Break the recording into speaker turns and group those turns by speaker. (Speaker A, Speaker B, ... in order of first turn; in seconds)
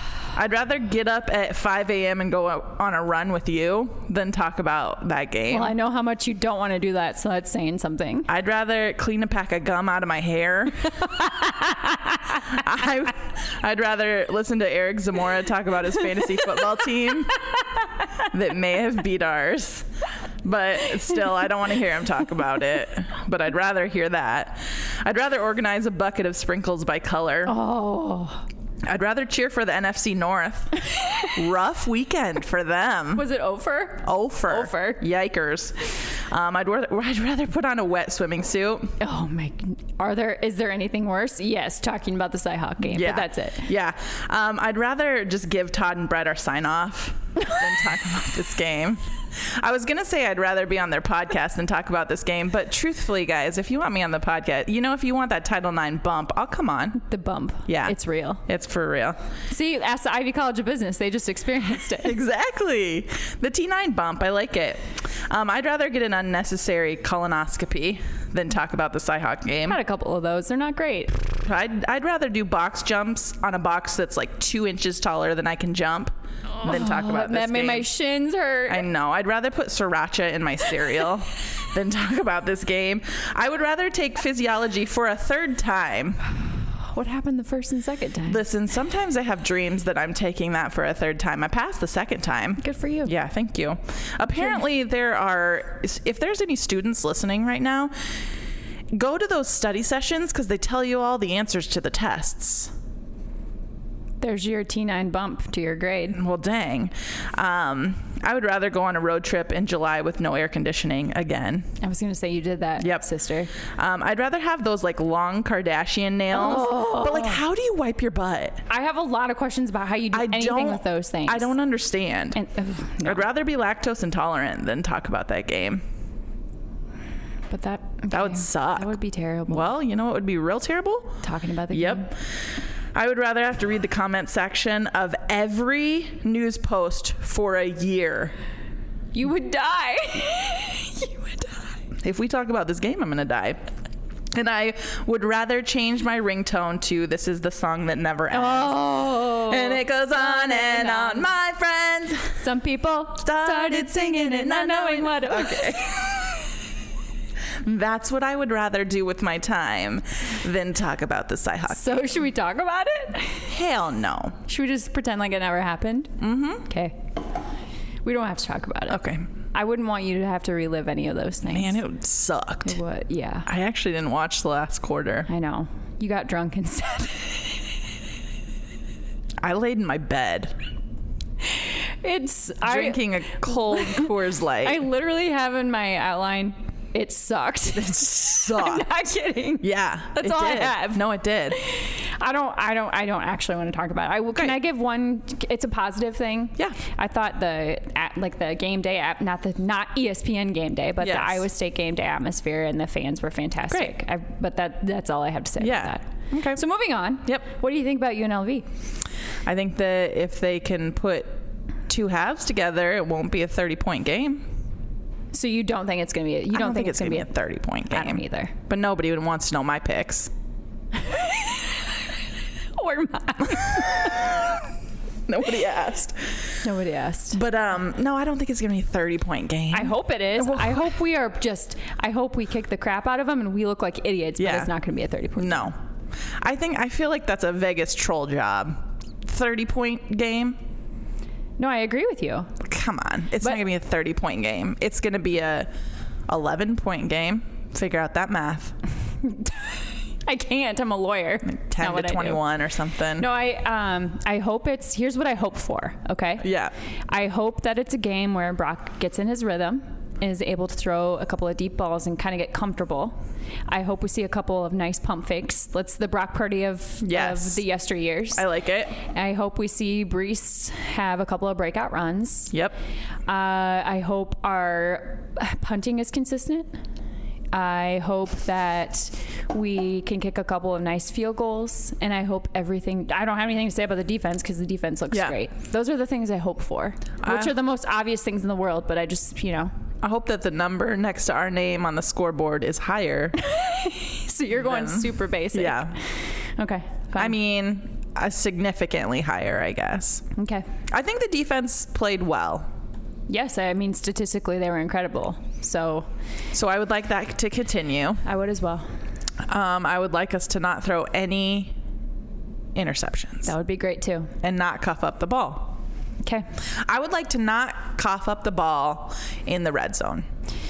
Speaker A: 0.3-5.7, 8.3-11.2, 12.4-17.5, 18.2-19.9, 20.4-27.5, 28.8-33.2, 34.0-39.0, 42.9-57.0, 57.7-59.2, 62.0-69.8, 71.3-77.9, 78.7-86.2, 88.3-97.9, 98.9-102.7, 106.1-111.7, 112.8-113.0, 113.6-118.6, 120.1-122.4, 123.0-125.8, 128.1-128.9, 129.5-132.2, 132.9-138.3, 142.0-143.6, 144.3-152.3, 153.2-156.4, 157.6-162.1, 163.5-164.4, 166.2-166.7, 168.9-169.3, 171.4-172.8, 173.4-175.3, 179.4-180.5, 182.6-184.8, 187.8-188.8, 189.6-191.6, 201.0-201.4, 205.6-206.6, 209.4-214.5, 216.5-220.3, 223.7-224.2, 225.3-226.6, 227.3-230.9, 234.4-234.7, 235.4-235.8, 236.4-240.6, 242.6-245.7, 246.3-248.7, 251.4-253.3, 256.4-256.7, 267.0-267.6, 268.3-268.9, 272.5-272.8, 287.2-287.5, 290.0-293.4, 294.6-295.9, 297.1-300.3, 300.9-302.7, 306.5-308.2, 309.4-311.7, 312.7-313.5, 314.4-315.8, 316.8-320.3
Speaker B: 5.5-8.3, 11.1-12.6, 27.4-28.4, 30.9-31.3, 33.1-35.0, 39.0-43.7, 57.0-58.4, 59.5-62.2, 69.7-71.2, 76.6-78.8, 86.7-88.4, 92.6-93.1, 104.2-106.2, 111.8-113.5, 116.3-117.4, 118.7-121.5, 122.3-123.2, 127.5-129.7, 131.2-132.1, 139.1-141.6, 148.3-151.3, 152.4-156.1, 161.7-163.5, 164.4-167.0, 168.0-169.0, 169.5-171.8, 172.6-173.5, 175.3-177.5, 182.0-208.7, 215.3-217.3, 217.9-218.5, 221.0-221.8, 222.7-224.5, 226.6-227.4, 229.7-235.7, 241.6-242.5, 249.3-252.4, 253.2-256.5, 257.1-263.1, 263.7-268.4, 269.0-272.5, 273.3-276.7, 277.5-289.7, 293.4-296.0, 296.6-297.4, 300.3-300.6, 303.3-306.1, 308.2-308.9, 313.4-314.3